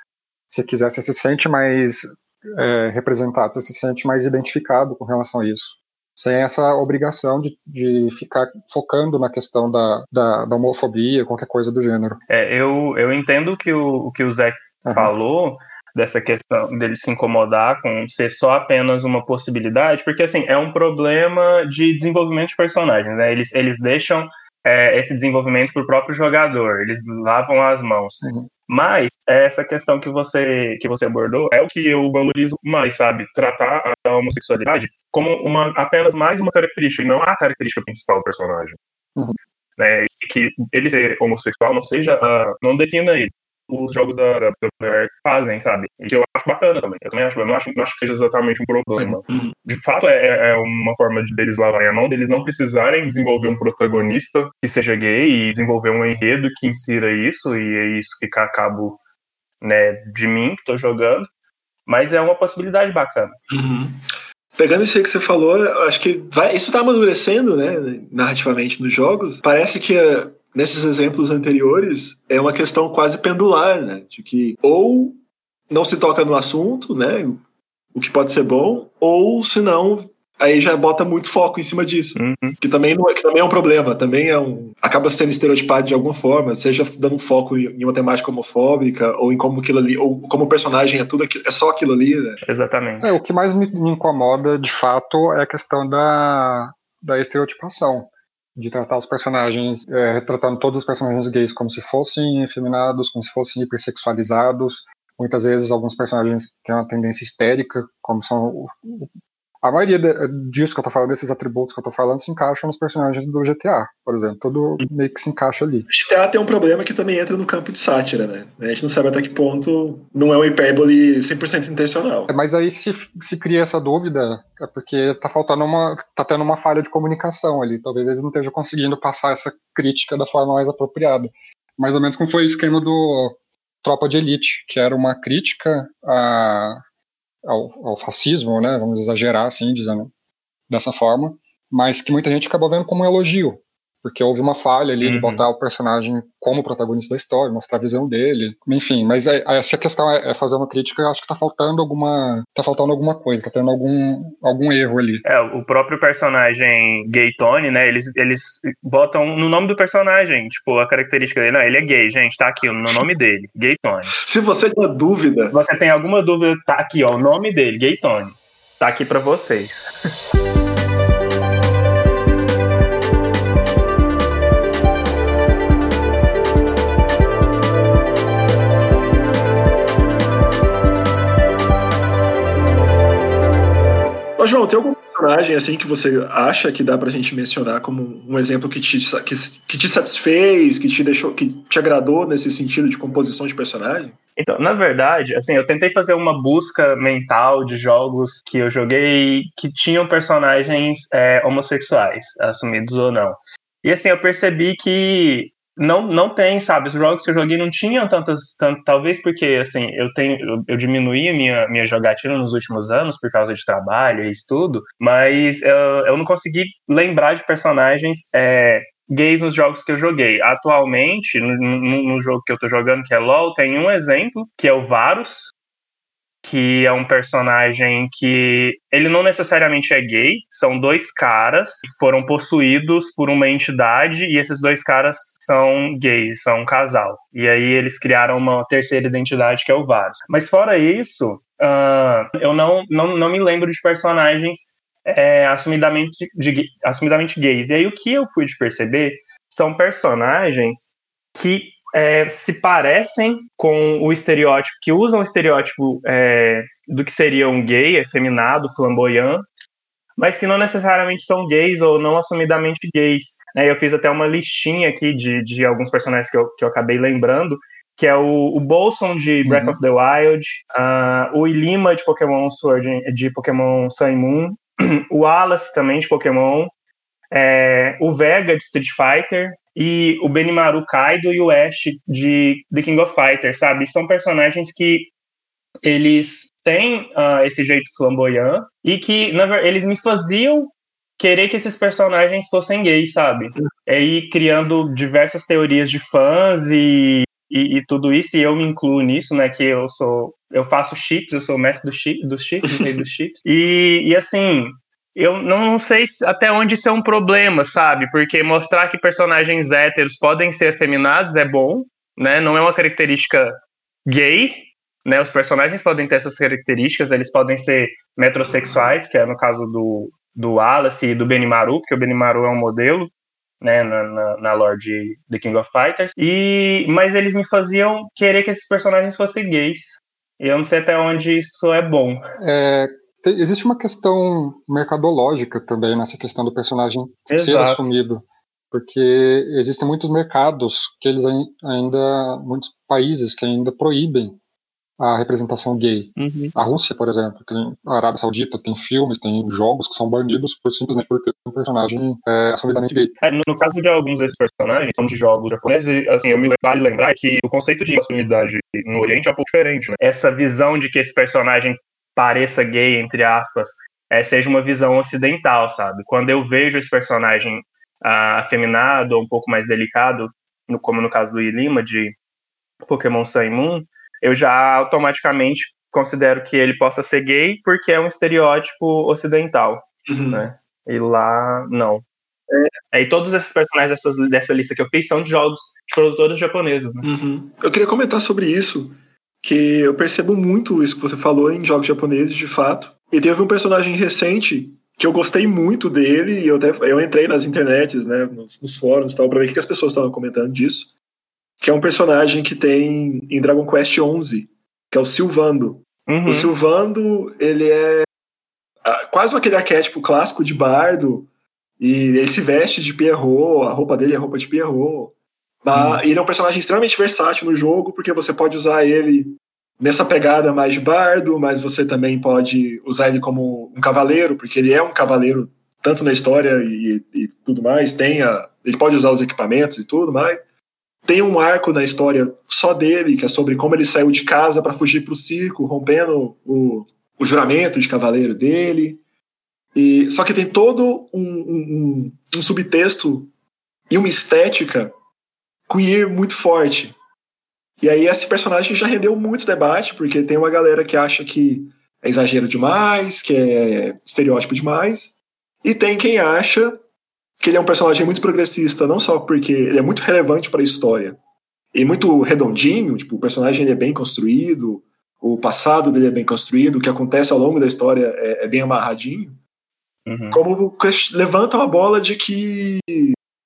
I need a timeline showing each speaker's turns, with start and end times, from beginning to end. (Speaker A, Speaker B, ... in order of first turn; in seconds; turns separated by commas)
Speaker A: 0.5-12.2, Speaker B: 12.3-38.8, Speaker A: 14.8-15.1, Speaker A: 28.2-28.5, Speaker B: 39.8-59.0, Speaker C: 49.3-49.5, Speaker B: 59.6-61.3, Speaker B: 61.9-63.4, Speaker C: 63.5-64.0, Speaker C: 64.6-75.2, Speaker C: 75.7-77.4, Speaker C: 77.9-92.4, Speaker B: 82.2-82.6, Speaker B: 92.5-93.1, Speaker A: 93.0-109.1, Speaker A: 109.6-115.9, Speaker C: 115.9-122.3, Speaker A: 122.3-136.8, Speaker A: 137.4-140.1, Speaker A: 140.7-155.2, Speaker B: 145.0-145.5, Speaker B: 155.2-164.1, Speaker C: 164.2-165.6, Speaker B: 165.5-169.8, Speaker C: 184.4-194.2, Speaker B: 194.4-225.5, Speaker B: 226.4-259.4, Speaker B: 260.2-276.7, Speaker A: 269.4-269.8, Speaker B: 277.3-285.1, Speaker B: 285.8-313.5, Speaker B: 314.1-332.2, Speaker A: 332.4-344.4, Speaker B: 337.3-337.9, Speaker A: 345.0-353.1, Speaker B: 346.2-346.5, Speaker B: 353.2-372.1, Speaker B: 372.9-382.0, Speaker C: 380.1-380.4, Speaker B: 382.9-387.1, Speaker C: 387.0-400.9, Speaker C: 401.6-408.1, Speaker B: 406.1-406.5, Speaker C: 408.9-411.3, Speaker C: 411.8-430.4, Speaker B: 415.7-416.0, Speaker C: 431.1-439.0, Speaker C: 439.8-443.3, Speaker C: 443.9-444.9, Speaker C: 445.7-446.9, Speaker C: 447.8-456.8, Speaker C: 457.4-461.2, Speaker C: 461.7-469.4, Speaker B: 470.1-470.4, Speaker C: 470.3-473.2